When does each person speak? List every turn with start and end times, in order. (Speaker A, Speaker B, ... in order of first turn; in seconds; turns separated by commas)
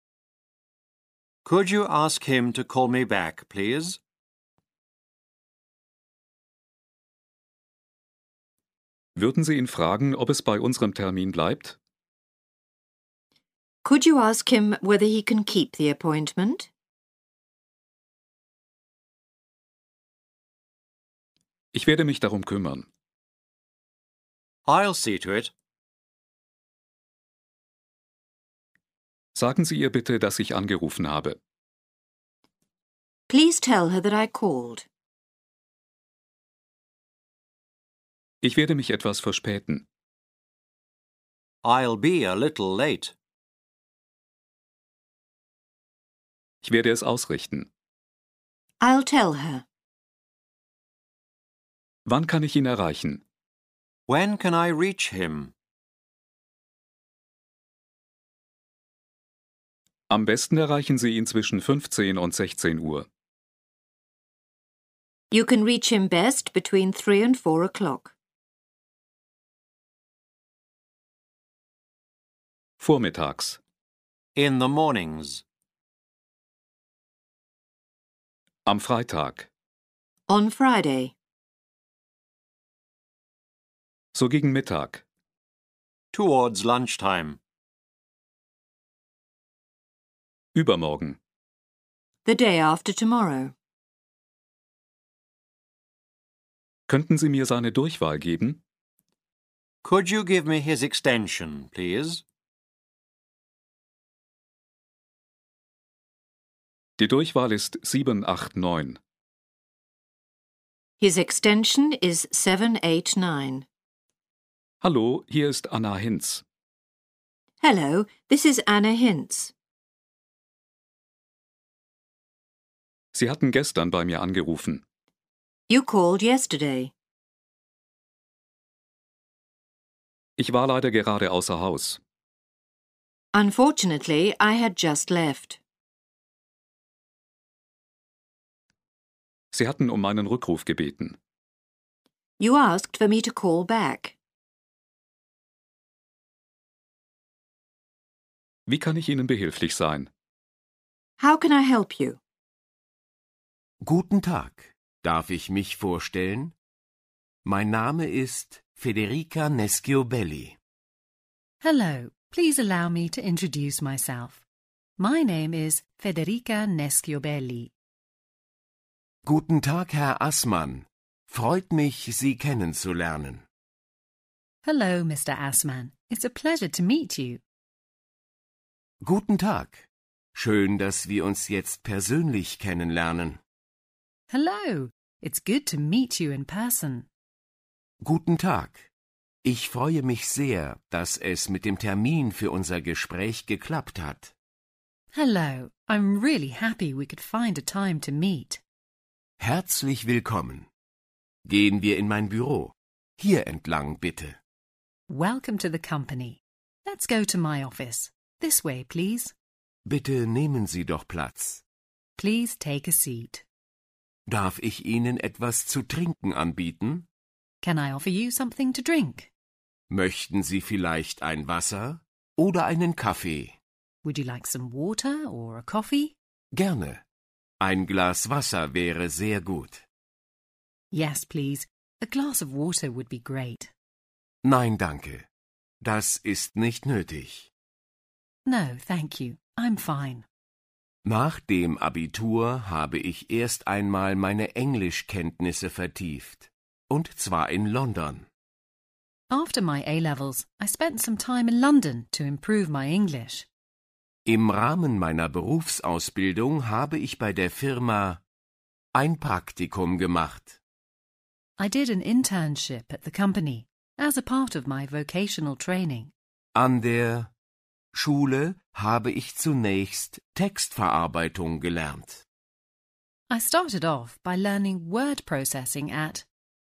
Speaker A: 1.4-4.0, Speaker B: 9.2-11.8, Speaker C: 13.8-16.7, Speaker B: 21.7-22.9, Speaker A: 24.7-25.5, Speaker B: 29.3-31.4, Speaker C: 33.3-34.9, Speaker B: 38.4-39.8, Speaker A: 41.6-43.1, Speaker B: 46.6-47.7, Speaker C: 48.8-49.6, Speaker B: 52.0-53.2, Speaker A: 54.1-55.5, Speaker B: 60.1-63.1, Speaker C: 65.3-68.1, Speaker B: 72.8-73.6, Speaker A: 74.3-75.4, Speaker B: 78.7-79.5, Speaker C: 80.3-81.1, Speaker B: 84.1-85.0, Speaker A: 86.1-87.4, Speaker B: 90.5-91.2, Speaker C: 92.2-93.5, Speaker B: 96.9-98.6, Speaker A: 99.8-102.2, Speaker B: 107.0-109.0, Speaker C: 111.0-113.7, Speaker B: 114.8-116.4, Speaker C: 117.6-119.5, Speaker B: 123.1-124.8, Speaker C: 125.7-126.9, Speaker B: 130.4-132.0, Speaker C: 133.3-135.6, Speaker B: 139.5-141.2, Speaker C: 142.4-144.1, Speaker B: 148.7-150.1, Speaker C: 151.2-152.2, Speaker D: 153.8-156.5, Speaker D: 157.4-160.6, Speaker E: 161.6-164.4, Speaker E: 165.0-167.7, Speaker D: 169.2-173.4, Speaker E: 174.6-177.4, Speaker D: 179.0-183.4, Speaker E: 184.3-187.1, Speaker D: 188.0-188.9, Speaker D: 189.4-194.3, Speaker E: 195.1-198.6, Speaker D: 199.4-200.7, Speaker D: 201.4-204.4, Speaker E: 205.1-209.3, Speaker D: 209.8-211.6, Speaker E: 212.2-213.4, Speaker D: 214.3-217.1, Speaker E: 217.6-219.3, Speaker D: 219.9-223.6, Speaker E: 224.0-226.1, Speaker D: 226.5-227.0, Speaker D: 227.6-229.8, Speaker E: 230.9-233.7, Speaker D: 234.4-235.3, Speaker D: 235.8-237.5, Speaker E: 238.4-240.2, Speaker D: 241.0-248.2, Speaker E: 249.3-253.5, Speaker D: 254.2-258.2, Speaker D: 258.9-260.6, Speaker E: 261.6-266.1, Speaker D: 266.5-267.3, Speaker D: 267.9-272.2, Speaker E: 273.3-276.2